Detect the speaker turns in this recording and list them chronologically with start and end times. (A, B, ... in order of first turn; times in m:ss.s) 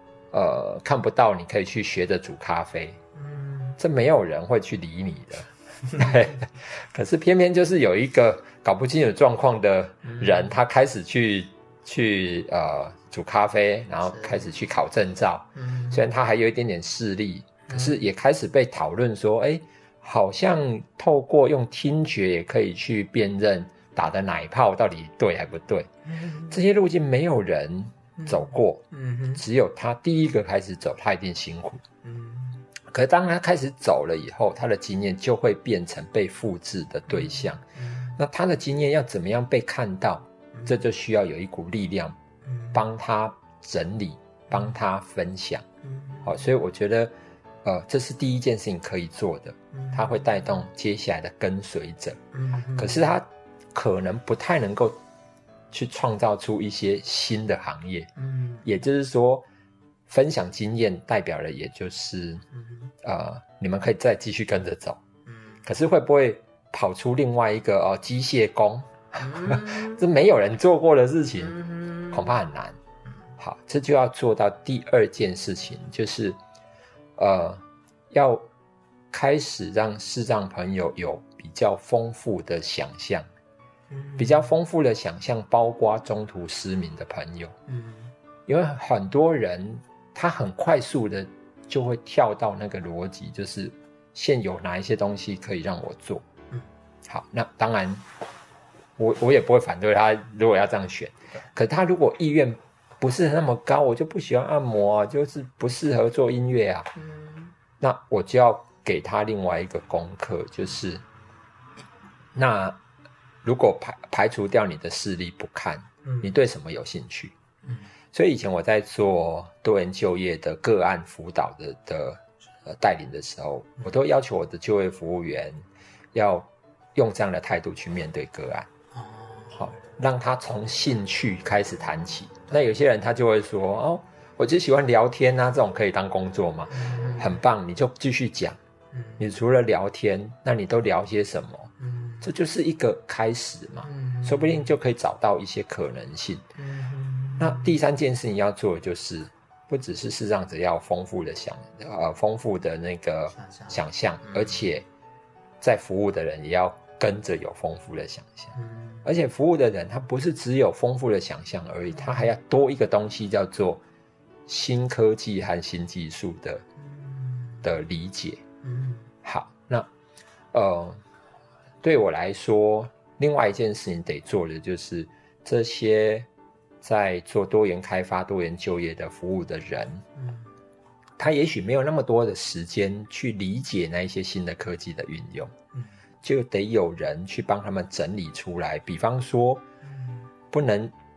0:00.3-0:03.0 A
0:03.2-0:03.8 B
0:03.8-0:25.9 A
0:05.9-0:06.3 B
0:10.0-0:10.6 B
0:14.1-0:14.5 B
0:15.6-0:16.0 B
0:17.7-0:18.0 B
0:26.1-0:26.6 B
0:26.5-0:28.8 A
0:28.2-0:29.4 B
0:29.4-0:31.8 A
0:32.0-0:32.7 B
0:32.9-0:37.6 A
0:37.1-0:38.2 B
0:38.2-0:42.2 A
0:42.4-0:42.8 B
0:42.7-0:45.6 A
0:45.8-0:46.5 B
0:46.2-0:52.2 A
0:49.7-0:50.7 B
0:52.3-0:53.2 B
0:52.8-0:55.0 A
0:55.7-0:58.1 A
0:58.2-0:58.7 B
0:58.6-0:59.4 A
1:00.1-1:02.4 A
1:02.5-1:02.9 B
1:03.0-1:05.0 A
1:05.3-1:05.6 B
1:05.6-1:11.6 A
1:09.2-1:10.1 B
1:11.4-1:12.3 B
1:12.1-1:12.8 A
1:13.4-1:16.4 A
1:17.2-1:18.5 A
1:19.1-1:23.3 A
1:23.9-1:24.5 B
1:24.2-1:27.6 A
1:27.7-1:28.1 B
1:28.5-1:36.3 A
1:37.1-1:38.0 A
1:39.0-1:46.9 A
1:47.0-1:47.6 B
1:47.8-1:51.0 A
1:52.4-1:52.8 A
1:53.4-1:57.3 A
1:56.0-1:56.3 B
1:58.1-2:08.7 A
2:08.9-2:09.6 B
2:09.5-2:18.6 A
2:16.7-2:17.4 B
2:18.9-2:19.2 B
2:19.2-2:21.7 A
2:21.8-2:22.3 B
2:22.2-2:26.5 A
2:23.8-2:24.7 B
2:26.6-2:27.8 B
2:27.4-2:34.9 A
2:33.3-2:34.7 B
2:35.6-2:38.5 A
2:38.6-2:39.1 B
2:39.0-2:43.8 A
2:42.0-2:42.3 B
2:44.5-2:46.6 A
2:46.8-2:47.7 B
2:47.6-2:48.4 A
2:48.6-2:49.1 B
2:49.2-2:49.9 A
2:50.5-2:51.0 A
2:51.8-2:56.3 A
2:56.8-3:00.1 A
3:00.2-3:00.5 B
3:01.2-3:05.5 A
3:06.2-3:09.6 A
3:09.8-3:10.3 B
3:10.5-3:10.9 A